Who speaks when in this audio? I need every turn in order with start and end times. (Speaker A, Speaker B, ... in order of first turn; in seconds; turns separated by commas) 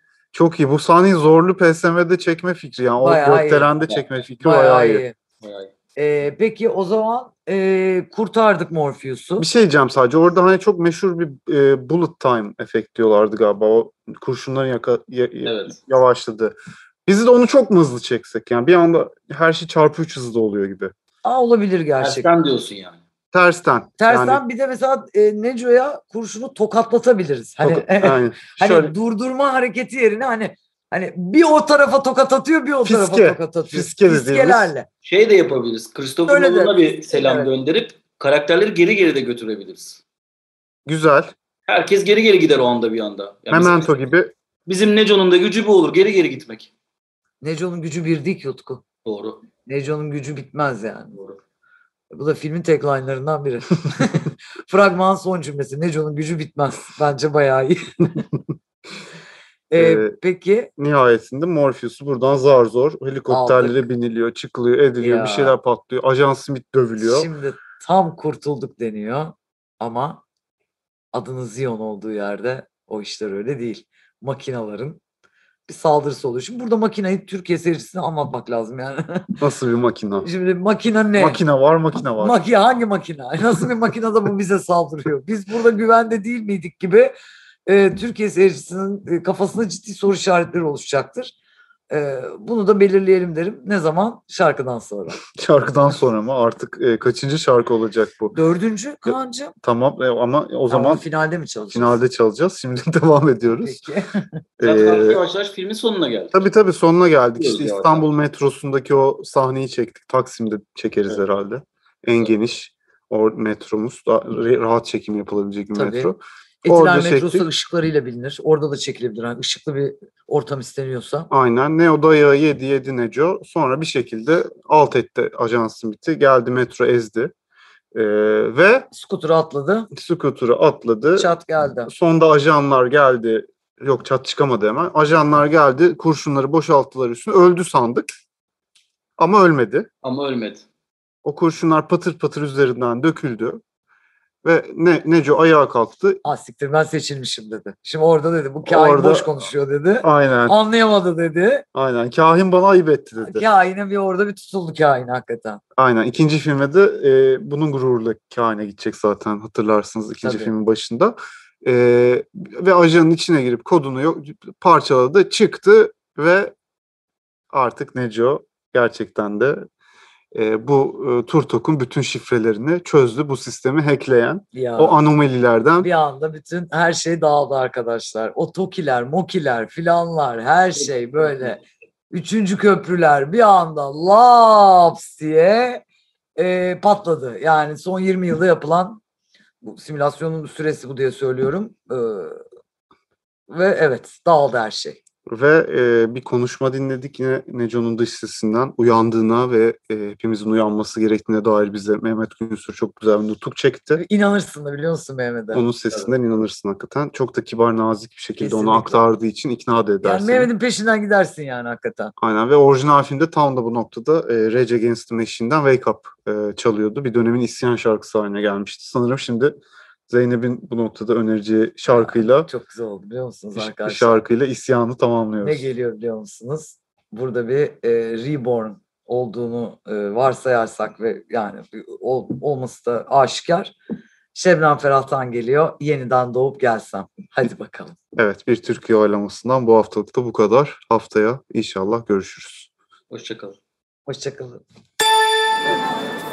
Speaker A: 0.3-5.0, Speaker B: 3.0-3.7, Speaker B: 4.4-5.1, Speaker C: 5.4-5.7, Speaker B: 6.0-9.5, Speaker A: 9.4-16.5, Speaker C: 15.4-15.8, Speaker A: 17.1-20.9, Speaker B: 21.2-22.3, Speaker C: 22.0-23.0, Speaker A: 23.3-24.4, Speaker B: 24.0-34.9, Speaker A: 27.6-28.9, Speaker A: 32.8-34.7, Speaker C: 35.0-40.0, Speaker B: 36.3-37.5, Speaker A: 40.9-41.3, Speaker C: 41.7-43.9, Speaker A: 43.5-44.3, Speaker C: 44.7-46.7, Speaker B: 47.4-48.8, Speaker C: 49.0-49.5, Speaker B: 49.7-51.1, Speaker B: 52.1-58.2, Speaker B: 59.7-60.7, Speaker A: 59.8-60.1, Speaker A: 60.8-67.3, Speaker B: 63.3-63.8, Speaker B: 65.0-65.6, Speaker B: 67.0-70.2, Speaker B: 71.1-75.0, Speaker B: 75.7-79.4, Speaker A: 79.4-80.3, Speaker B: 80.2-81.4, Speaker A: 81.2-82.4, Speaker B: 82.2-87.1, Speaker B: 87.7-91.3, Speaker B: 91.9-95.2, Speaker A: 95.3-98.3, Speaker B: 98.3-99.5, Speaker A: 99.6-101.0, Speaker B: 100.7-102.0, Speaker A: 101.7-103.8, Speaker B: 103.6-104.3, Speaker A: 104.6-105.2, Speaker C: 104.6-106.5, Speaker A: 106.3-117.5, Speaker C: 107.4-108.0, Speaker B: 115.7-116.1, Speaker B: 116.6-121.3, Speaker A: 121.3-127.3, Speaker A: 127.9-128.9, Speaker B: 128.9-129.9, Speaker A: 129.9-131.3, Speaker B: 131.1-131.9, Speaker A: 131.9-138.1, Speaker A: 139.2-139.9, Speaker C: 140.0-140.6, Speaker A: 141.2-143.6, Speaker A: 144.4-146.2, Speaker B: 146.2-151.6, Speaker A: 148.7-149.3, Speaker A: 150.0-150.6, Speaker A: 151.7-153.4, Speaker B: 153.2-155.6, Speaker A: 155.8-166.5, Speaker B: 160.2-160.5, Speaker A: 167.5-169.6, Speaker A: 170.3-175.9, Speaker B: 174.5-175.0, Speaker B: 175.8-185.8, Speaker B: 186.4-189.0, Speaker B: 189.6-192.4, Speaker B: 193.5-195.0, Speaker A: 195.3-204.0, Speaker B: 203.9-205.6, Speaker A: 205.5-210.5, Speaker B: 208.4-209.0, Speaker B: 210.0-212.1, Speaker A: 212.2-222.5, Speaker B: 221.9-224.2, Speaker A: 223.6-225.7, Speaker B: 225.4-233.7, Speaker B: 234.3-237.9, Speaker A: 238.2-242.7, Speaker C: 243.1-243.6, Speaker B: 244.1-244.6